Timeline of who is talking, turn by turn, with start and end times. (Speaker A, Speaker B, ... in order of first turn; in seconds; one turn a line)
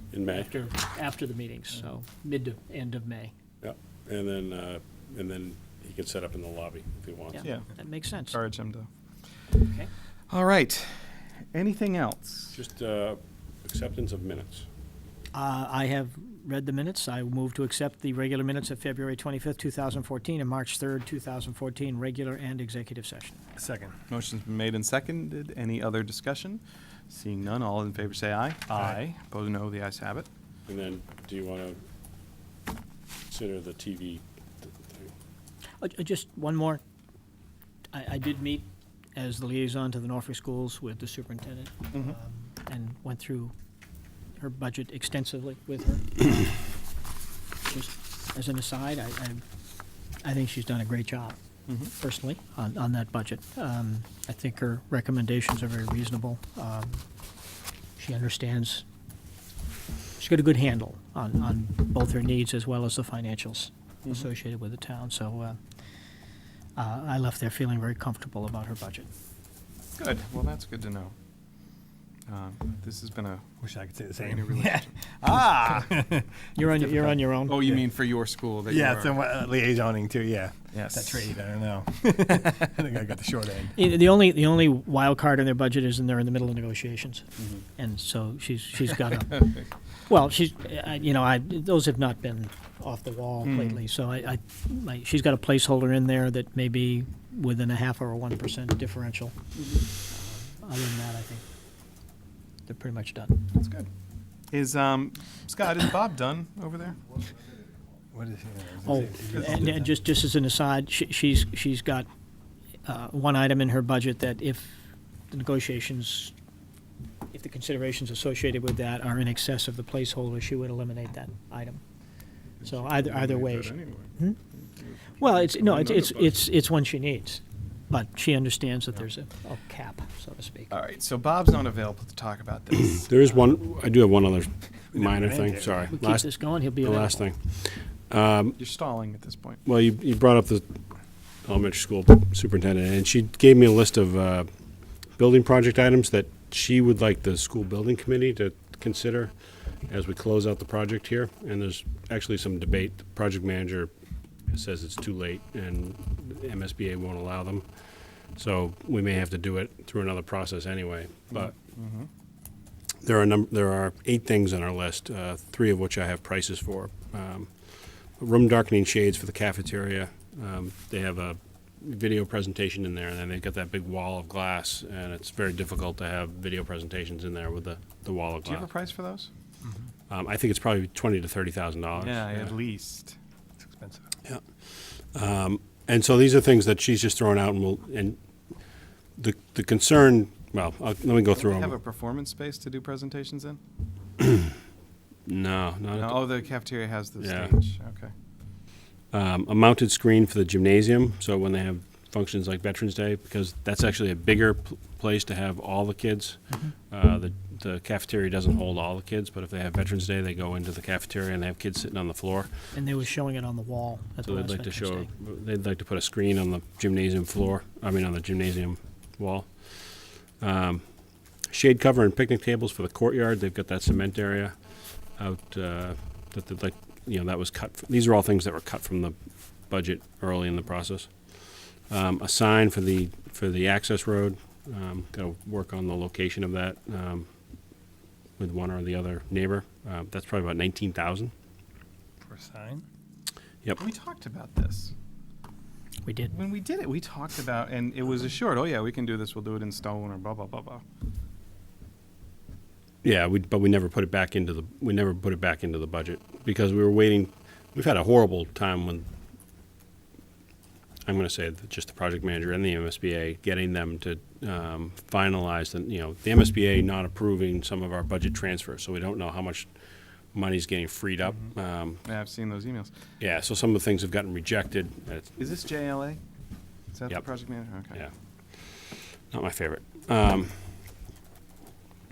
Speaker A: 0.1-0.5
Speaker B: 0.3-3.3
Speaker A: 3.6-7.5
Speaker B: 7.3-8.4
Speaker C: 7.4-7.7
Speaker C: 8.3-8.9
Speaker C: 10.3-12.6
Speaker A: 12.5-14.7
Speaker B: 15.3-23.4
Speaker D: 23.6-24.0
Speaker C: 24.1-30.3
Speaker D: 28.7-29.0
Speaker A: 30.7-31.8
Speaker A: 33.3-35.1
Speaker B: 35.8-36.8
Speaker B: 37.9-43.5
Speaker B: 44.4-46.7
Speaker B: 47.6-49.4
Speaker B: 50.2-51.4
Speaker C: 51.7-51.9
Speaker B: 52.0-57.0
Speaker B: 58.0-58.8
Speaker B: 60.2-65.6
Speaker B: 66.8-69.1
Speaker C: 70.0-71.1
Speaker C: 72.3-73.4
Speaker D: 73.6-76.5
Speaker C: 74.2-75.7
Speaker B: 75.4-75.8
Speaker B: 76.5-77.6
Speaker C: 77.4-79.2
Speaker D: 78.7-83.7
Speaker C: 80.7-81.3
Speaker B: 83.7-99.3
Speaker C: 93.4-93.8
Speaker B: 100.1-101.4
Speaker B: 102.7-103.4
Speaker C: 103.5-103.9
Speaker C: 104.5-107.0
Speaker D: 108.1-109.8
Speaker B: 108.8-112.1
Speaker C: 109.3-109.7
Speaker B: 112.8-116.3
Speaker B: 117.3-121.8
Speaker C: 122.6-126.4
Speaker B: 122.6-124.4
Speaker B: 125.1-130.8
Speaker C: 130.7-133.1
Speaker A: 133.0-138.6
Speaker D: 134.9-135.9
Speaker B: 135.9-137.2
Speaker C: 138.6-139.6
Speaker A: 139.7-140.6
Speaker A: 141.4-144.5
Speaker A: 145.1-149.3
Speaker A: 149.9-153.9
Speaker A: 154.5-161.5
Speaker C: 161.3-162.1
Speaker A: 163.0-178.7
Speaker C: 178.4-179.3
Speaker D: 179.6-179.9
Speaker A: 180.1-182.6
Speaker C: 182.0-183.2
Speaker D: 183.6-184.1
Speaker A: 184.2-191.7
Speaker C: 191.3-193.6
Speaker A: 195.2-196.6
Speaker C: 195.9-198.1
Speaker A: 197.2-197.5
Speaker A: 199.1-212.7
Speaker B: 212.7-215.1
Speaker A: 214.2-220.8
Speaker A: 221.4-224.6
Speaker A: 225.1-237.3
Speaker A: 238.4-241.3
Speaker D: 242.2-242.8
Speaker C: 243.8-244.9
Speaker B: 246.0-246.3
Speaker C: 246.3-250.8
Speaker A: 253.0-259.1
Speaker A: 261.0-269.8
Speaker A: 270.3-272.0
Speaker C: 271.4-272.9
Speaker A: 273.2-275.4
Speaker C: 275.4-276.2
Speaker C: 276.9-278.0
Speaker A: 277.1-280.9